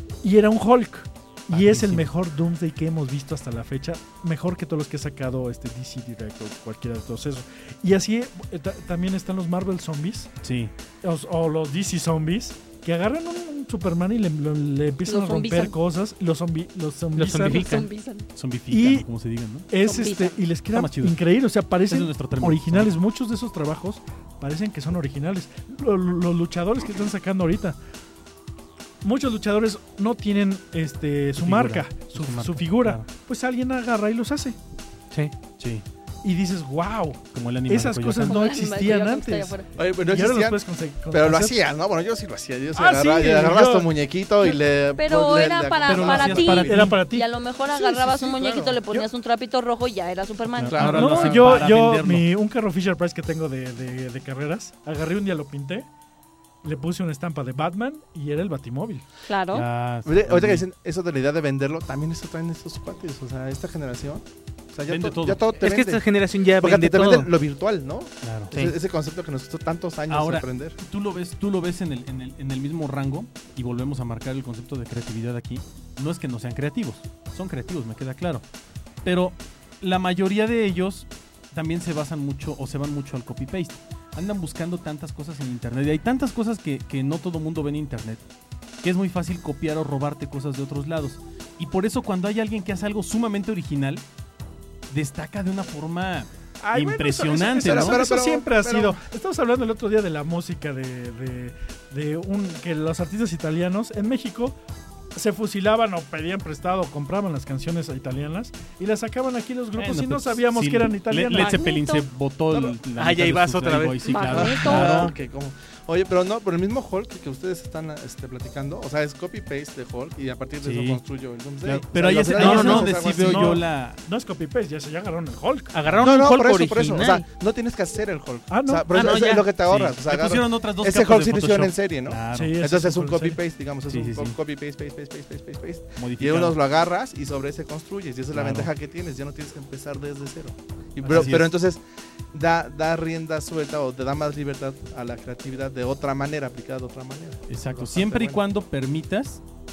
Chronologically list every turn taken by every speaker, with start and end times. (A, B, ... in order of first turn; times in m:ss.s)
0:00.2-0:10.3 A
0:01.5-0:02.1 B
0:10.4-0:10.7 B
0:11.0-0:17.7 A
0:15.1-0:15.7 C
0:17.2-0:17.9 D
0:17.4-0:18.3 C
0:18.4-0:19.7 B
0:18.7-0:19.1 A
0:19.7-0:27.8 A
0:19.8-0:20.4 C
0:20.7-0:21.2 B
0:21.9-0:23.0 B
0:29.0-0:34.6 A
0:31.4-0:33.1 B
0:35.6-0:35.8 B
0:36.2-0:41.6 A
0:37.3-0:38.6 B
0:38.2-0:39.7 C
0:39.8-0:46.9 E
0:42.7-0:43.9 A
0:45.0-0:51.0 C
0:45.8-0:47.0 B
0:46.5-0:49.1 A
0:48.3-0:48.8 E
0:50.5-0:52.3 B
0:50.6-0:51.6 E
0:50.8-0:55.9 A
0:56.6-0:59.0 A
0:59.3-0:59.7 C
0:59.5-1:00.6 B
1:00.0-1:06.0 E
1:04.9-1:05.4 B
1:05.6-1:07.3 D
1:06.6-1:10.8 E
1:08.2-1:08.5 B
1:10.1-1:18.4 B
1:19.0-1:28.2 B
1:28.8-1:34.0 B
1:34.9-1:38.0 B
1:36.6-1:44.6 A
1:37.6-1:39.0 E
1:45.2-1:51.7 A
1:49.8-1:55.1 B
1:51.3-1:52.1 C
1:52.9-1:54.5 D
1:54.0-1:55.1 C
1:54.3-2:03.6 E
2:00.6-2:01.0 B
2:01.6-2:04.0 B
2:02.0-2:05.7 A
2:02.4-2:02.8 D
2:05.7-2:07.2 D
2:06.0-2:28.4 E
2:08.5-2:09.1 A
2:08.9-2:09.5 D
2:09.4-2:12.6 B
2:12.3-2:13.4 A
2:13.9-2:14.4 B
2:16.0-2:16.6 B
2:18.3-2:18.7 B
2:21.1-2:21.5 B
2:27.5-2:29.4 B